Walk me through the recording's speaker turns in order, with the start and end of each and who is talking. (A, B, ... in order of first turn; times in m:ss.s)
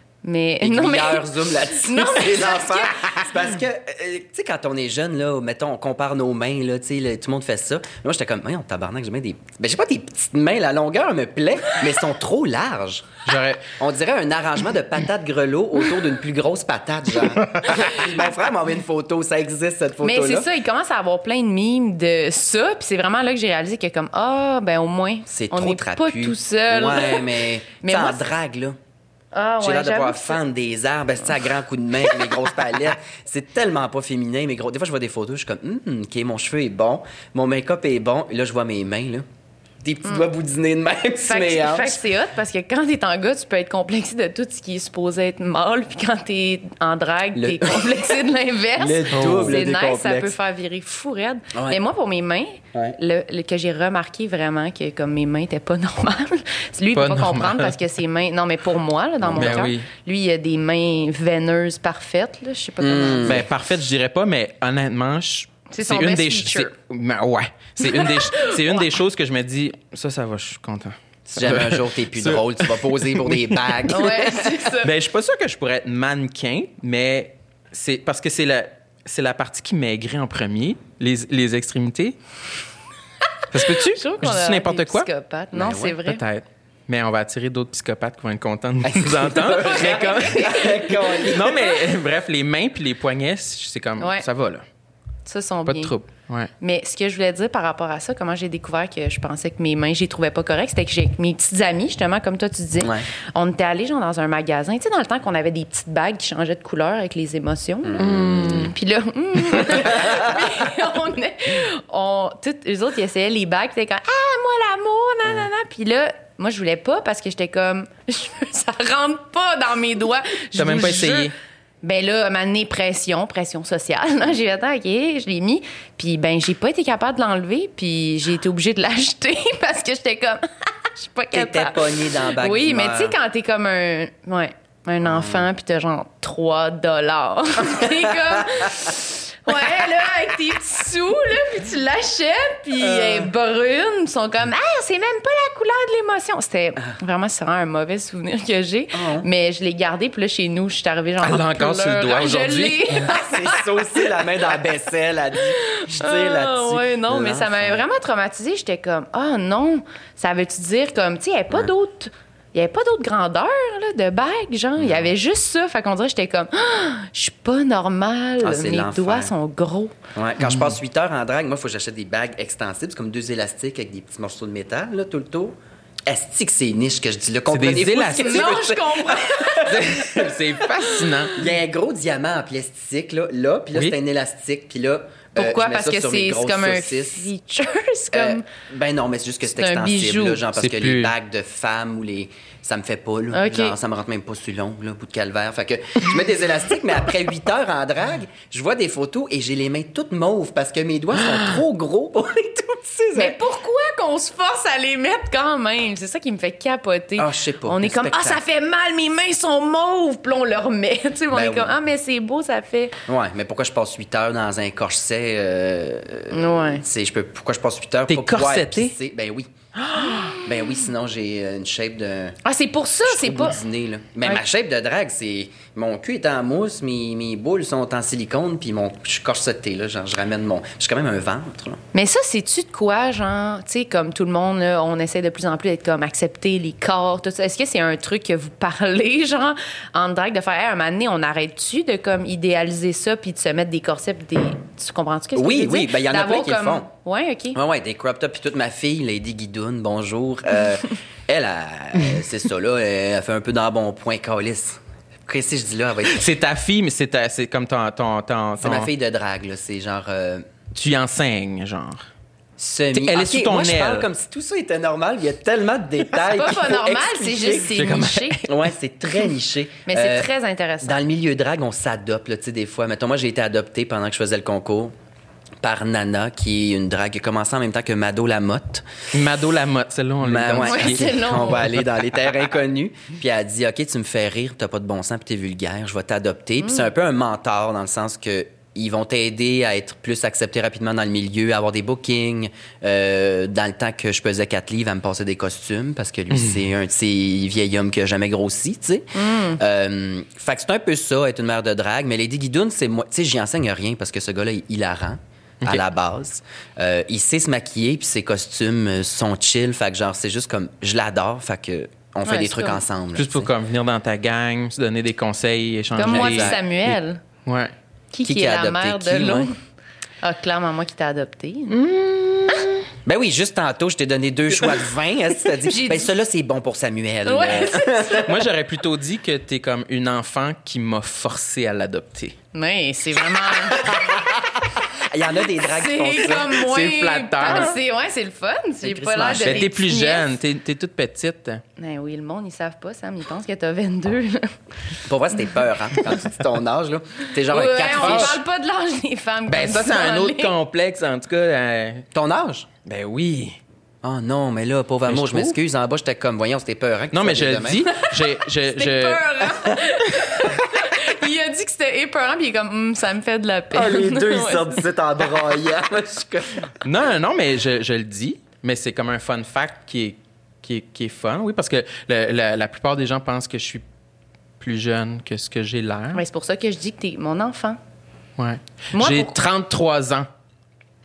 0:00.2-0:03.1 A
0:00.6-0:20.5 B
0:13.3-0:13.7 C
0:20.0-0:28.3 A
0:25.3-0:28.8 B
0:29.3-0:30.4 A
0:29.6-0:39.3 B
0:39.8-0:42.0 B
0:41.2-1:03.4 A
0:47.4-0:48.2 B
0:48.8-0:50.3 B
0:49.1-0:49.6 C
0:51.5-0:51.8 B
0:56.9-0:57.8 C
0:59.2-0:59.7 B
0:59.4-0:59.9 C
1:02.8-1:03.5 B
1:03.2-1:13.9 C
1:05.7-1:06.7 A
1:07.8-1:08.9 A
1:11.3-1:14.6 B
1:13.9-1:14.9 A
1:14.8-1:22.2 C
1:23.5-1:25.1 C
1:23.6-1:26.2 A
1:25.5-1:26.0 B
1:26.1-1:34.6 C
1:28.8-1:31.8 B
1:29.4-1:31.6 A
1:34.0-1:34.3 A
1:35.3-1:35.9 A
1:35.7-1:36.5 C
1:36.6-2:01.3 A
1:42.8-1:43.0 B
1:47.9-1:48.7 B
1:49.8-1:50.4 B
2:00.6-2:01.3 C
2:01.8-2:34.2 A
2:11.3-2:13.2 B
2:15.0-2:15.5 B
2:22.8-2:23.3 B
2:28.9-2:29.3 B
2:31.2-2:33.0 C
2:32.9-2:37.8 B
2:35.5-2:50.0 A
2:44.8-2:45.1 B
2:48.4-2:49.3 B
2:50.2-2:55.6 B
2:50.4-2:50.7 C
2:56.1-3:00.4 B
2:57.5-2:58.6 C
2:58.1-3:00.0 A
2:59.7-3:01.4 C
3:01.4-3:07.3 B
3:05.4-3:08.5 A
3:08.1-3:23.4 B
3:09.5-3:10.4 A
3:10.6-3:11.1 C
3:13.3-3:13.8 A
3:23.1-3:33.0 A
3:27.2-3:28.4 B
3:31.3-3:31.8 B
3:33.1-3:39.5 B
3:36.3-3:36.8 A
3:38.1-3:39.0 C
3:40.0-3:40.4 A
3:40.0-3:40.3 C
3:40.3-3:42.4 B
3:42.4-3:43.6 A
3:43.1-3:51.8 B
3:51.9-4:07.6 A
4:05.3-4:06.9 B
4:07.6-4:16.3 B
4:16.1-4:18.9 C
4:18.6-4:20.5 B
4:20.7-4:22.1 C
4:22.6-4:27.8 B
4:22.9-4:24.1 C
4:26.3-4:28.4 A
4:27.7-4:28.6 C
4:28.5-4:30.3 B
4:29.9-4:31.0 A
4:30.8-4:35.0 B
4:35.6-4:38.9 B
4:39.1-4:41.1 C
4:40.2-5:13.5 B
4:40.6-4:41.7 A
4:46.6-4:46.9 A
4:59.2-4:59.6 A
5:12.3-5:12.8 A
5:13.2-5:17.7 C
5:16.0-5:17.2 A
5:16.0-5:16.6 B
5:18.1-5:19.6 A
5:18.2-5:19.5 B
5:20.2-5:21.8 A
5:21.7-5:22.8 C
5:23.0-5:28.3 B
5:25.7-5:26.1 A
5:27.3-5:28.4 A
5:28.2-5:32.4 C
5:32.5-5:33.9 A
5:33.7-5:36.6 B
5:35.6-5:40.3 A
5:36.5-5:37.8 C
5:38.8-5:39.7 B
5:39.4-5:41.6 C
5:41.8-5:44.6 A
5:45.0-5:48.4 B
5:47.5-5:50.5 A
5:47.9-5:48.4 C
5:49.5-5:52.1 C
5:52.1-5:52.7 B
5:52.8-5:53.6 C
5:54.0-5:57.9 B
5:55.1-5:55.6 C
5:57.1-5:59.4 C
5:57.9-6:04.8 A
6:03.7-6:06.8 B
6:06.8-6:13.8 C
6:14.6-6:16.2 C
6:16.1-6:17.8 A
6:18.4-6:20.3 C
6:18.9-6:19.4 A